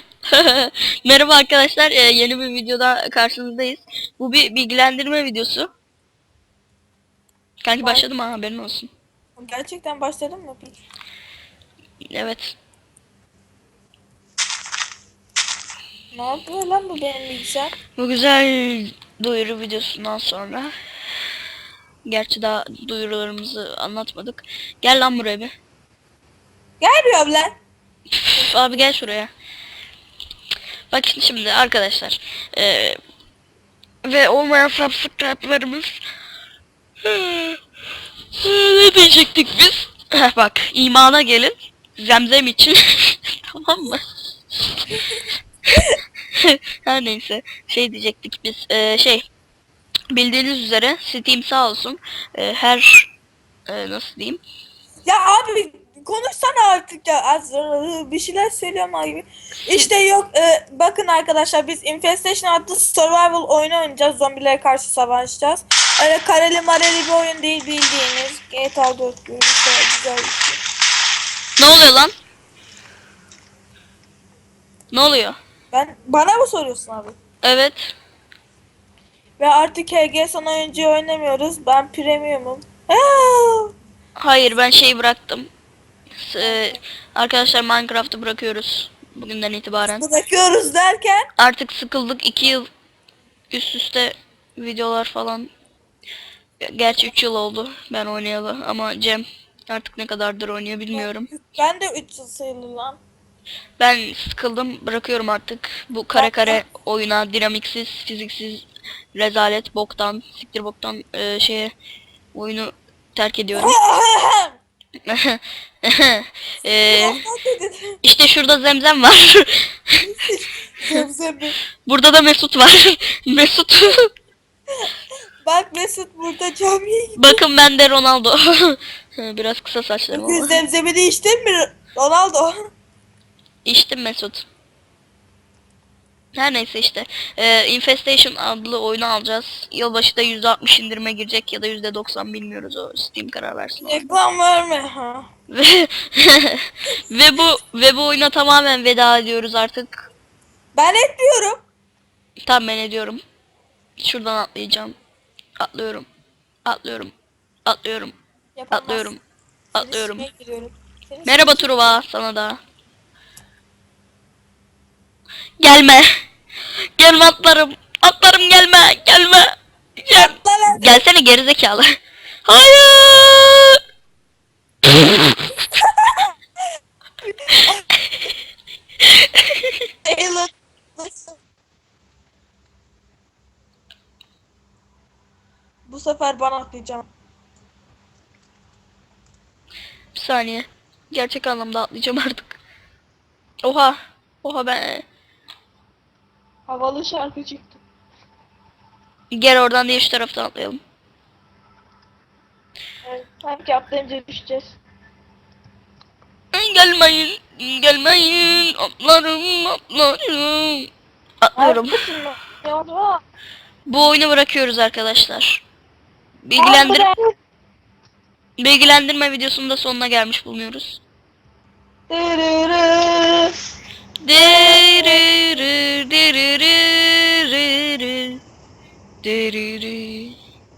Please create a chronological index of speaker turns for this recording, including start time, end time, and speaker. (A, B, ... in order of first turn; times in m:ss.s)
0:00.3-0:05.7 A
0:07.6-0:08.9 A
0:07.8-0:08.0 B
0:09.4-0:10.8 B
0:12.1-0:12.6 A
0:16.1-0:17.7 B
0:18.0-0:20.7 A
0:22.0-0:25.5 A
0:26.8-0:27.5 B
0:28.2-0:29.3 A
0:30.9-0:33.0 A
0:34.0-0:36.0 A
0:37.0-0:37.6 A
0:38.3-0:45.0 A
0:46.4-0:49.2 A
0:50.1-0:53.1 A
0:53.7-0:54.4 A
0:55.0-1:10.6 B
1:11.6-1:12.1 A
1:14.9-1:15.4 A
1:15.7-1:17.2 B
1:17.4-1:17.9 A
1:19.4-1:23.7 B
1:24.2-1:25.5 A
1:26.2-1:30.0 A
1:26.4-1:26.8 B
1:30.0-1:31.3 B
1:31.4-1:32.7 A
1:33.5-1:35.5 A
1:36.6-1:41.3 A
1:40.9-1:43.0 B
1:43.8-1:51.7 A
1:46.1-1:46.6 B
1:52.3-1:53.7 A
1:53.5-1:54.6 B
1:55.0-1:57.2 A
1:56.6-1:58.0 B
1:58.0-2:00.0 A
2:00.0-2:01.6 B
2:01.8-2:04.1 A
2:05.4-2:07.4 B
2:07.2-2:10.6 A
2:10.1-2:12.7 B
2:13.6-2:14.5 A
2:16.3-2:24.1 A
2:23.8-2:25.3 B
2:25.5-2:30.1 A
2:30.7-2:31.6 B
2:32.4-2:33.2 A
2:34.0-2:34.9 A
2:35.6-2:36.0 A
2:36.6-2:37.1 A
2:37.6-2:38.1 A
2:38.6-2:39.1 B
2:38.7-2:39.2 A
2:39.7-2:40.2 A
2:39.8-2:41.8 B
2:41.2-2:42.6 A
2:45.6-2:46.0 A
2:47.0-2:51.8 A
2:50.1-2:51.0 B
2:52.4-2:53.8 A
2:54.8-2:55.5 A
2:55.7-2:56.3 B
2:57.2-2:57.8 B
2:59.0-2:59.8 A
3:00.0-3:01.4 B
3:05.9-3:07.1 B
3:10.1-3:12.6 A
3:13.6-3:15.0 A
3:16.7-3:17.8 B
3:19.3-3:20.8 A
3:23.0-3:24.8 B
3:26.5-3:30.9 A
3:31.4-3:32.0 A
3:31.6-3:33.2 B
3:33.8-3:35.6 A
3:36.4-3:37.1 A
3:36.6-3:37.3 B
3:38.6-3:41.0 A
3:42.1-3:43.5 B
3:44.2-3:48.4 A
3:44.3-3:45.3 B
3:49.2-3:50.4 A